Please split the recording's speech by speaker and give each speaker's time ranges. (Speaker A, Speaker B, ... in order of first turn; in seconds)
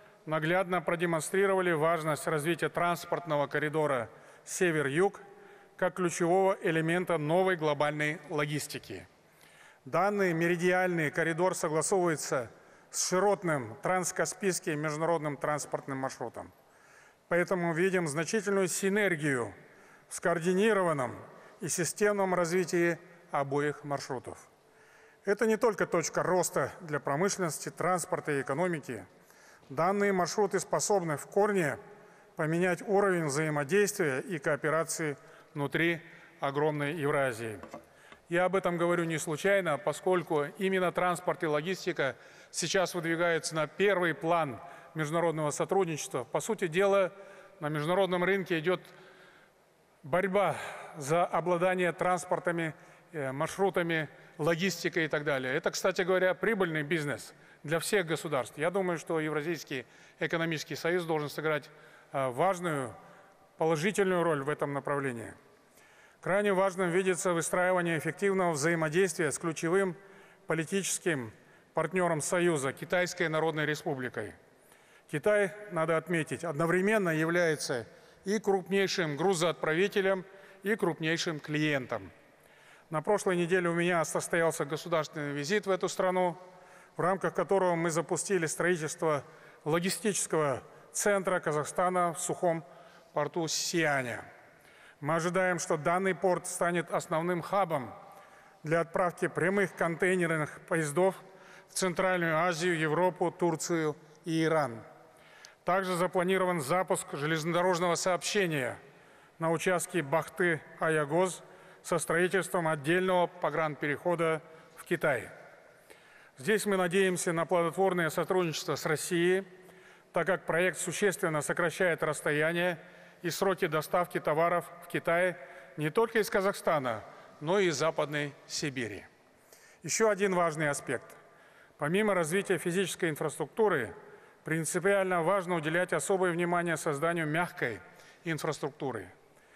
Speaker A: 0.3-5.2, 5.8-9.1, 9.8-16.5, 17.3-19.6, 20.1-24.5, 25.2-29.1, 29.7-31.8, 32.4-37.6, 38.3-48.9, 50.0-63.0, 63.6-65.4, 66.2-74.4, 75.1-82.1, 82.9-86.4, 87.0-94.3, 95.0-97.9, 98.6-104.8, 105.7-108.8, 109.4-115.3, 116.4-119.5, 120.1-129.1, 129.8-131.2, 131.8-139.1